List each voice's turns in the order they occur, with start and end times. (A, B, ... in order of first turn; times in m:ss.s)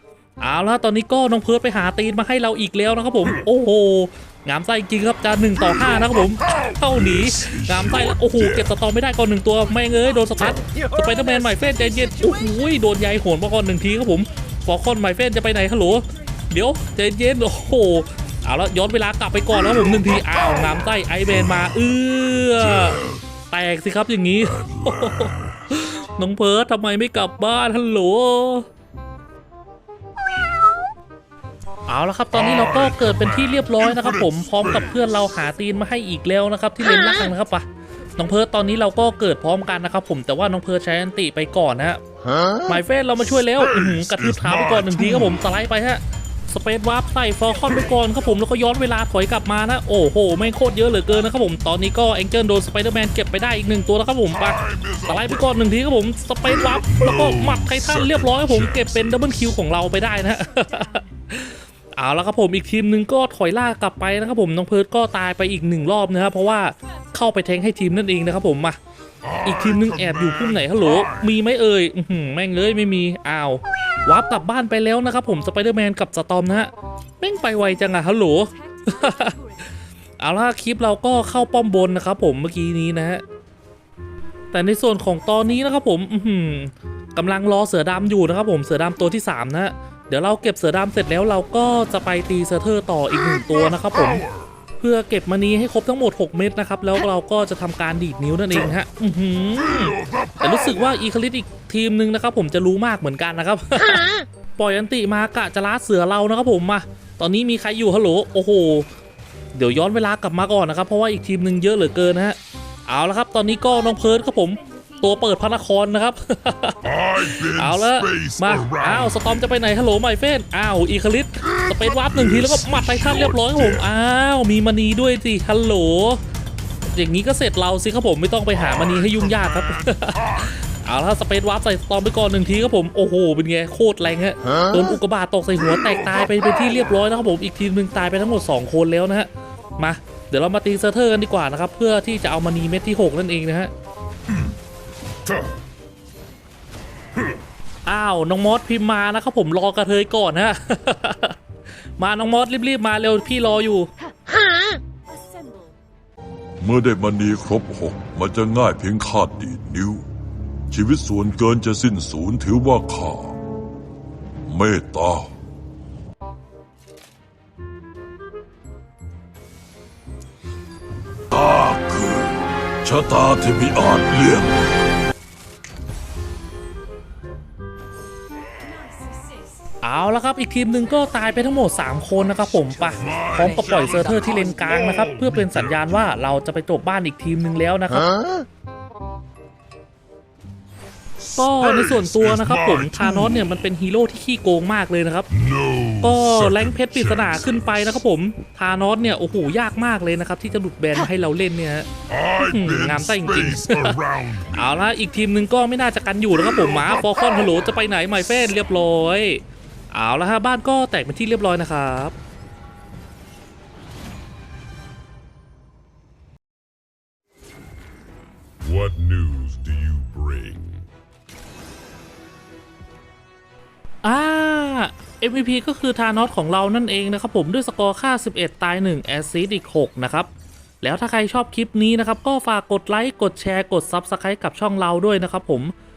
0:00.4-0:28.7 A
0:22.7-0:23.2 B
0:24.6-0:25.5 B
0:31.9-0:42.0 A
0:32.8-0:33.7 B
0:42.7-1:08.8 A
0:44.4-0:44.9 B
0:54.6-0:55.0 B
0:56.9-0:59.2 B
1:09.2-1:11.0 B
1:09.4-1:19.4 A
1:20.2-1:23.2 A
1:24.5-1:34.3 A
1:34.8-1:48.9 A
1:49.5-2:06.2 A
1:56.8-1:59.3 B
2:02.2-2:03.6 B
2:06.9-2:23.7 A
2:27.9-2:31.4 A
2:32.0-2:33.9 A
2:36.6-2:40.0 C
2:40.7-2:43.4 C
2:44.5-2:45.3 C
2:51.3-2:54.6 C
2:59.8-3:08.1 A
3:03.1-3:04.7 B
3:11.4-3:15.3 A
3:11.9-3:12.8 B
3:15.4-3:17.3 B
3:16.0-3:21.9 A
3:22.1-3:24.7 B
3:22.4-3:32.2 A
3:38.6-3:40.9 B
3:44.0-3:50.3 A
3:50.8-3:55.7 A